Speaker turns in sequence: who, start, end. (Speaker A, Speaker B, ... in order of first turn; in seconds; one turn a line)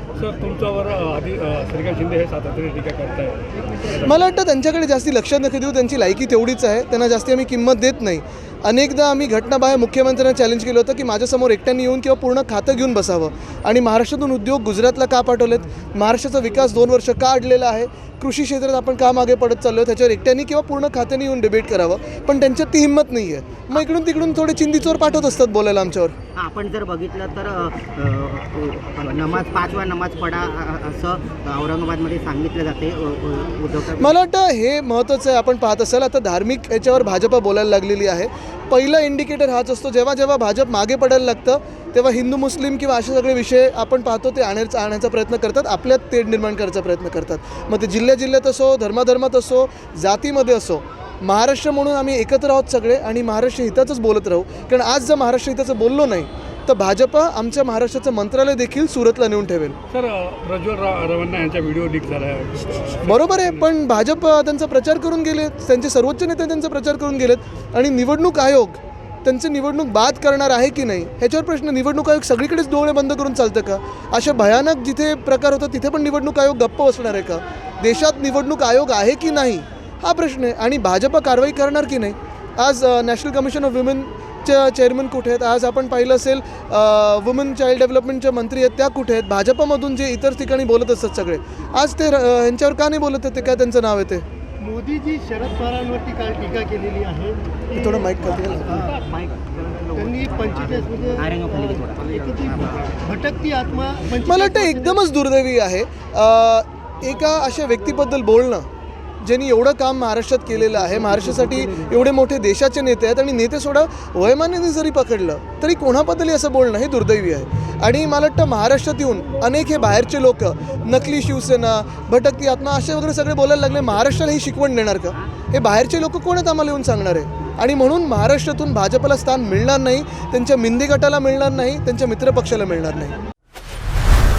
Speaker A: 0.2-4.1
Speaker B: 4.0-26.2
Speaker C: 26.4-34.1
Speaker B: 34.0-59.8
Speaker A: 59.9-63.6
Speaker B: 63.1-94.2
Speaker D: 94.6-97.4
Speaker B: 97.7-98.8
Speaker C: 98.9-103.0
Speaker D: 100.0-101.2
Speaker D: 103.1-104.2
Speaker B: 104.2-108.7
Speaker B: 109.2-133.2